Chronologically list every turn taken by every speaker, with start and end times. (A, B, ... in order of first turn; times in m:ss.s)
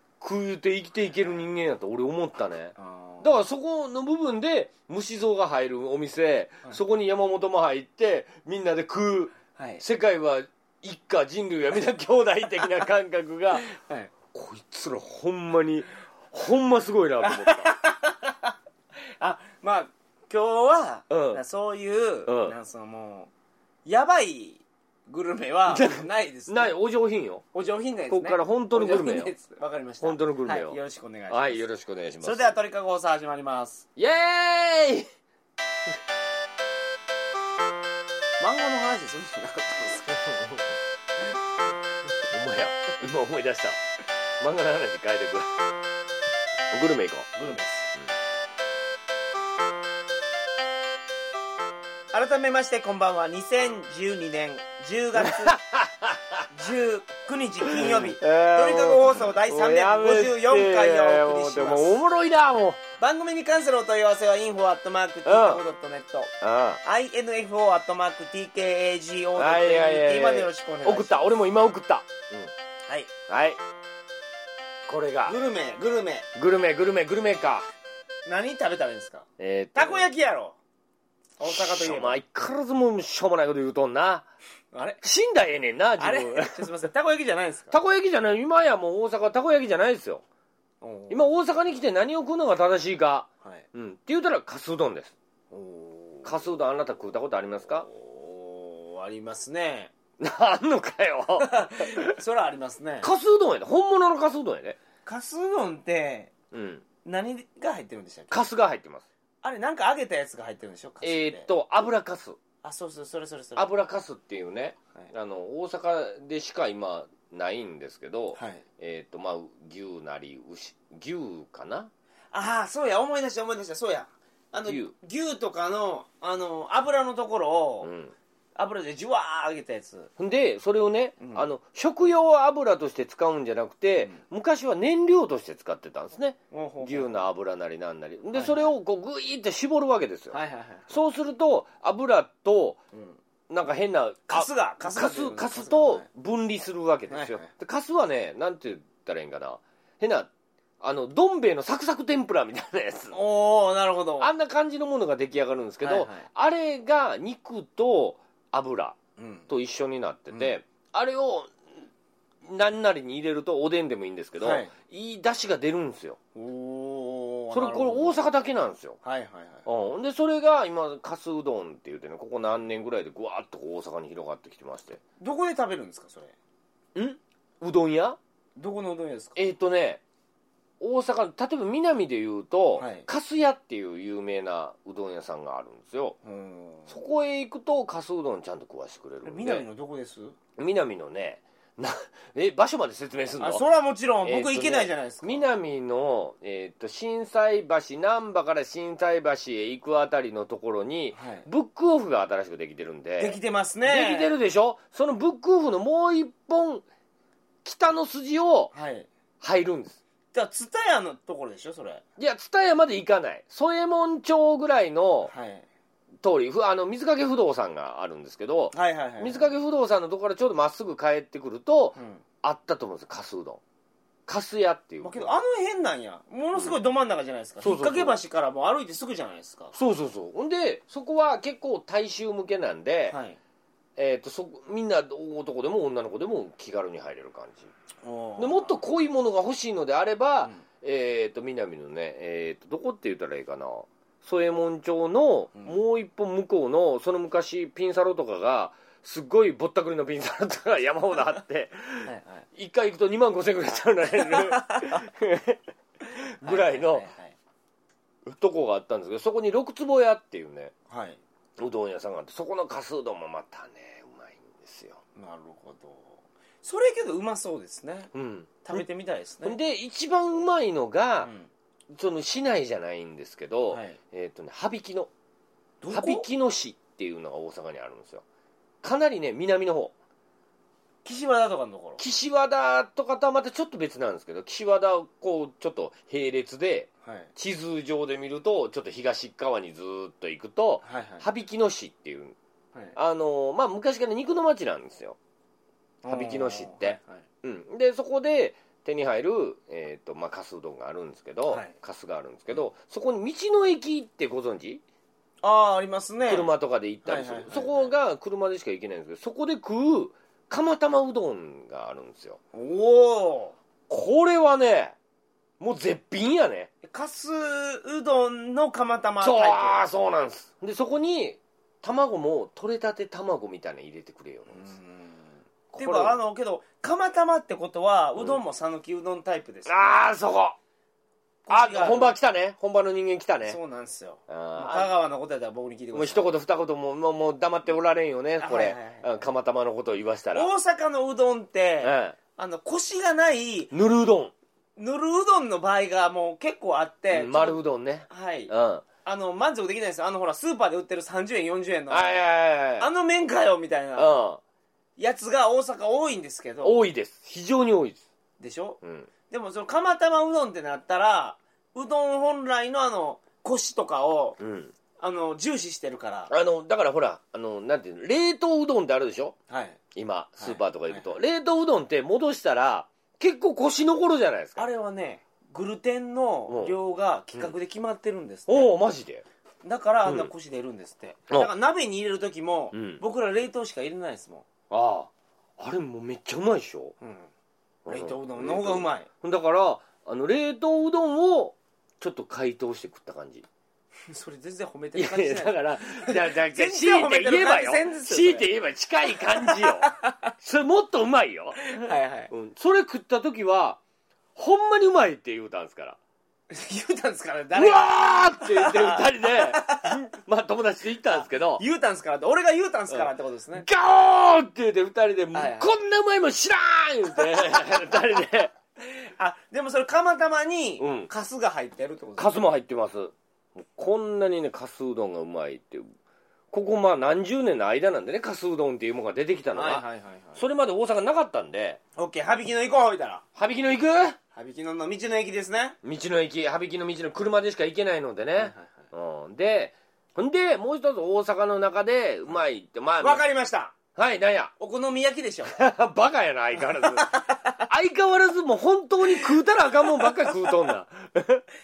0:00.2-0:13.7 A
0:02.8-0:03.3 B
0:09.6-0:09.8 B
0:13.6-0:14.1 B
0:14.3-0:17.7 A
0:17.2-0:18.5 B
0:19.2-0:23.3 B
0:21.1-0:21.4 A
0:22.2-0:22.5 A
0:23.8-0:26.7 B
0:25.7-0:27.4 A
0:27.5-0:31.6 B
0:28.1-0:29.3 A
0:30.0-0:32.6 A
0:32.2-0:33.8 B
0:34.0-0:35.1 A
0:38.4-0:40.5 B
0:42.3-0:43.8 A
0:44.4-0:45.5 A
0:46.7-0:48.1 A
0:47.4-0:47.9 B
0:52.1-0:55.6 B
0:55.2-0:56.4 A
0:56.5-1:02.0 B
0:57.6-1:02.8 A
1:03.0-1:06.3 B
1:05.2-1:05.6 A
1:06.4-1:06.8 A
1:06.8-1:11.4 B
1:09.4-1:12.5 A
1:13.3-1:13.6 A
1:14.9-1:15.4 A
1:15.2-1:16.3 B
1:16.3-1:17.7 A
1:18.2-1:20.6 B
1:19.4-1:20.1 A
1:21.4-1:22.2 B
1:21.4-1:24.3 A
1:24.7-1:25.0 B
1:25.0-1:26.7 A
1:26.0-1:27.7 B
1:27.7-1:30.2 A
1:30.8-1:31.3 B
1:31.1-1:35.1 A
1:35.5-1:36.4 B
1:36.2-1:37.9 A
1:37.8-1:39.9 B
1:40.2-1:42.1 A
1:41.4-1:43.1 B
1:43.0-1:44.8 A
1:45.0-1:46.3 B
1:46.5-1:46.8 A
1:47.0-1:48.4 B
1:48.3-1:49.0 A
1:49.4-1:51.5 B
1:51.0-1:52.4 A
1:52.6-1:53.7 B
1:53.6-2:01.9 A
1:58.3-1:58.6 B
2:02.3-2:07.9 B
2:04.6-2:04.9 A
2:07.8-2:08.1 A
2:08.6-2:10.1 B
2:10.2-2:20.4 A
2:11.2-2:11.5 B
2:16.5-2:17.2 B
2:18.3-2:18.7 B
2:20.3-2:20.9 B
2:20.9-2:22.8 A
2:22.9-2:23.2 B
2:23.5-2:30.3 A
2:24.3-2:26.1 B
2:27.1-2:27.5 B
2:30.8-2:33.2 A
2:33.1-2:34.3 B
2:34.2-2:39.0 A
2:35.8-2:36.3 B
2:39.2-2:39.5 B
2:39.5-2:41.5 A
2:42.4-2:46.2 A
2:44.4-2:44.7 B
2:46.3-2:48.2 B
2:47.5-2:49.0 A
2:49.0-2:49.6 B
2:49.6-2:55.0 A
2:55.2-2:56.3 B
2:56.9-2:58.2 A
2:58.6-2:59.4 B
2:59.4-3:00.0 A
3:00.8-3:06.2 A
3:02.8-3:03.1 B
3:06.2-3:06.9 B
3:06.9-3:09.6 A
3:09.2-3:10.4 B
3:10.6-3:13.6 A
3:13.4-3:15.4 B
3:14.2-3:26.8 A
3:21.1-3:21.5 B
3:23.2-3:24.3 B
3:27.6-3:28.7 A
3:28.7-3:29.1 B
3:29.4-3:30.0 A
3:30.3-3:32.0 B
3:32.2-3:35.3 A
3:35.3-3:35.6 B
3:36.2-3:43.6 A
3:38.7-3:39.5 B
3:42.0-3:42.2 B
3:44.3-3:45.4 A
3:45.0-3:49.7 B
3:47.6-3:48.1 A
3:49.7-3:53.2 A
3:53.1-3:53.4 B
3:54.0-3:57.7 A
3:58.0-3:58.8 B
3:58.4-4:15.6 A
4:12.0-4:12.4 B
4:14.4-4:15.0 B
4:16.1-4:17.0 A
4:16.4-4:17.3 B
4:18.2-4:20.7 A
4:20.9-4:21.2 B
4:21.6-4:25.0 A
4:25.2-4:28.1 B
4:28.1-4:28.8 A
4:28.6-4:29.6 B
4:29.4-4:31.3 A
4:31.2-4:31.5 B
4:31.9-4:35.1 A
4:33.7-4:34.0 B
4:35.8-4:36.3 B
4:35.9-4:38.2 A
4:38.8-4:39.9 A
4:41.0-4:42.0 B
4:42.0-4:52.4 A
4:47.0-4:47.3 B
4:50.8-4:51.2 B
4:53.0-4:55.2 A
4:56.0-4:57.2 B
4:56.1-5:04.8 A
5:01.5-5:01.7 B
5:05.4-5:06.5 B
5:06.3-5:12.4 A
5:07.0-5:07.9 B
5:12.5-5:13.6 B
5:13.9-5:15.0 A
5:15.6-5:16.7 A
5:16.8-5:19.8 B
5:19.2-5:24.7 A
5:24.5-5:30.0 B
5:25.7-5:26.2 A
5:29.6-5:30.6 A
5:31.4-5:32.2 B
5:31.5-5:33.6 A
5:33.4-5:36.3 B
5:34.3-5:34.9 A
5:35.9-5:40.5 A
5:38.4-5:39.2 B
5:40.3-5:43.7 B
5:41.8-5:42.2 A
5:43.7-5:44.3 A
5:44.8-5:48.5 B
5:47.1-5:48.8 A
5:49.0-5:52.2 B
5:51.9-5:52.9 A
5:52.8-5:54.2 B
5:54.0-5:54.4 A
5:55.0-5:56.8 B
5:56.6-5:58.0 A
5:58.4-6:04.4 B
5:58.8-5:59.1 A
6:04.4-6:04.7 A
6:05.0-6:06.3 B
6:06.3-6:09.3 A
6:09.5-6:09.8 B
6:09.9-6:14.6 A
6:10.4-6:11.1 B
6:14.6-6:18.7 B
6:16.5-6:16.8 A
6:18.5-6:19.2 A
6:19.6-6:24.5 B
6:20.0-6:20.3 A
6:22.7-6:23.0 A
6:24.7-6:26.9 A
6:27.0-6:27.3 B
6:27.8-6:33.5 A
6:27.9-6:29.1 B
6:34.1-6:38.5 B
6:34.9-6:41.8 A
6:39.4-6:40.3 B
6:41.6-6:42.3 B
6:42.3-6:43.8 A
6:44.4-6:46.0 A
6:46.5-6:50.0 B
6:47.5-6:51.6 A
6:51.1-6:53.6 B
6:52.9-6:58.5 A
6:55.3-6:55.7 B
6:58.8-7:02.4 B
7:00.8-7:01.1 A
7:02.2-7:05.9 A
7:06.5-7:09.8 A
7:09.5-7:10.4 B
7:10.4-7:11.8 A
7:12.0-7:13.2 B
7:13.4-7:14.2 A
7:14.3-7:15.8 B
7:15.8-7:23.2 A
7:18.4-7:18.7 B
7:23.0-7:23.7 B
7:23.9-7:24.5 A
7:24.6-7:25.6 B
7:25.4-7:31.4 A
7:26.6-7:27.6 B